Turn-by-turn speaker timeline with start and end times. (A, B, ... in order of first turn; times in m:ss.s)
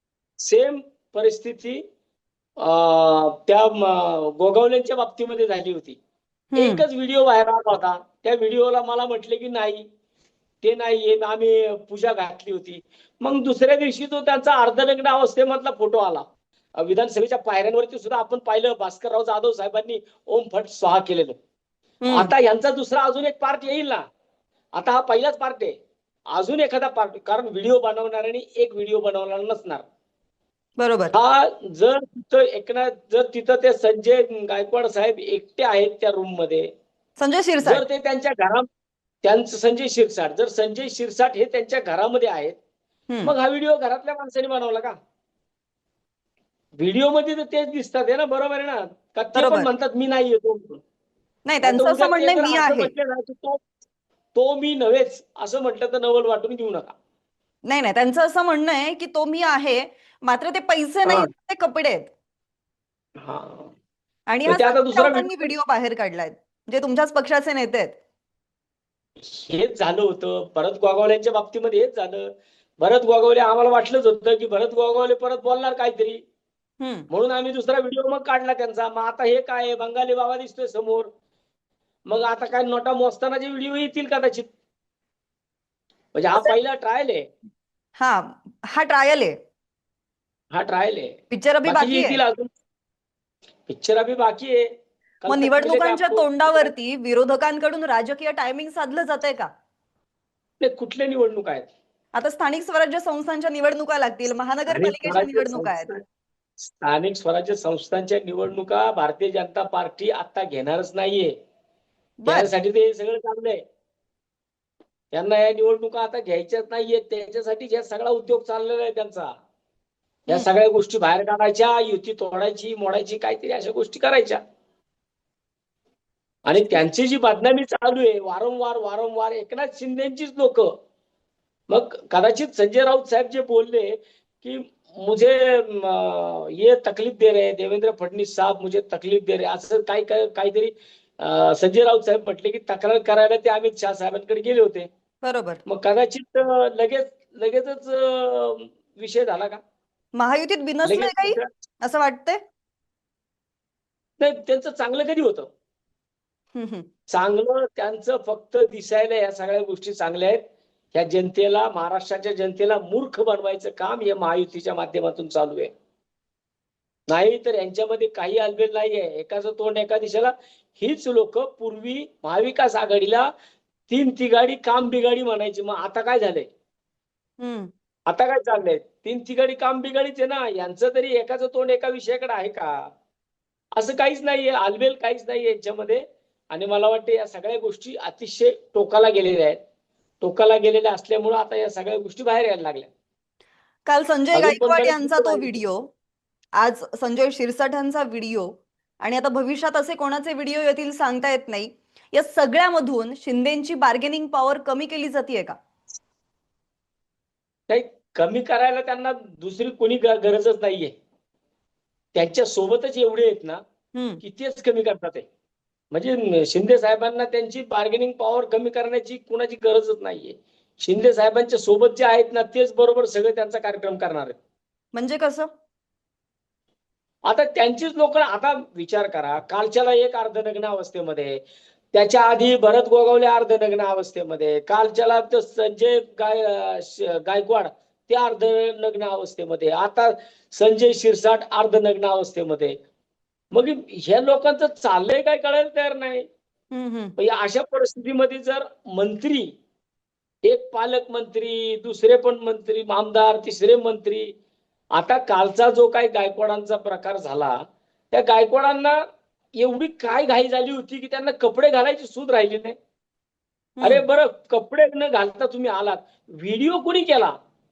0:00.4-0:01.8 A
0:02.6-0:06.0 A
0:06.5-0:06.8 B
0:06.6-0:09.8 A
0:10.6-0:16.2 A
0:16.8-0:21.4 A
0:22.0-0:22.3 B
0:22.1-0:24.0 A
0:24.8-0:25.8 A
0:26.3-0:29.9 A
0:30.8-0:31.1 B
0:31.1-0:36.7 A
0:37.2-0:37.8 B
0:37.6-0:38.7 A
0:39.2-0:42.6 A
0:43.1-0:43.3 B
0:43.2-0:45.0 A
0:46.8-0:50.8 A
0:49.4-0:49.7 B
0:51.5-0:52.9 B
0:51.6-0:53.6 A
0:54.4-0:57.0 A
0:57.7-1:02.1 B
1:03.2-1:03.7 A
1:04.3-1:08.0 B
1:04.4-1:05.5 A
1:09.3-1:16.2 A
1:16.8-1:17.1 B
1:17.1-1:21.1 A
1:22.1-1:24.5 A
1:26.1-1:27.2 A
1:28.0-1:29.4 B
1:30.5-1:32.5 A
1:31.3-1:32.2 B
1:33.7-1:34.7 A
1:35.2-1:36.7 A
1:35.3-1:39.5 B
1:40.6-1:41.7 A
1:42.2-1:45.9 B
1:44.7-1:46.0 A
1:46.6-1:51.3 A
1:52.2-1:52.5 B
1:52.3-1:53.6 A
1:55.1-1:59.3 A
2:00.3-2:04.4 A
2:06.5-2:10.7 A
2:06.5-2:06.8 B
2:11.7-2:24.9 A
2:25.2-2:25.6 B
2:25.7-2:29.6 A
2:30.2-2:32.4 B
2:30.8-2:31.5 A
2:34.2-2:35.5 A
2:36.6-2:36.9 B
2:37.1-2:40.4 A
2:40.9-2:45.7 A
2:47.1-2:53.3 A
2:53.9-2:56.5 A
2:57.4-2:57.7 B
2:58.1-3:02.8 A
3:03.8-3:09.6 A
3:10.2-3:12.9 A
3:13.9-3:15.9 B
3:14.3-3:15.6 A
3:16.6-3:25.6 B
3:27.7-3:30.9 A
3:32.2-3:33.6 A
3:34.0-3:34.2 B
3:34.2-3:35.2 A
3:35.9-3:44.4 A
3:45.0-3:45.5 B
3:47.3-3:51.4 A
3:51.9-4:02.8 A
4:03.5-4:06.3 A
4:06.7-4:07.2 B
4:07.2-4:09.5 A
4:10.4-4:14.3 A
4:15.0-4:17.6 A
4:18.1-4:19.0 A
4:19.6-4:22.8 A
4:23.8-4:24.0 B
4:23.8-4:27.3 A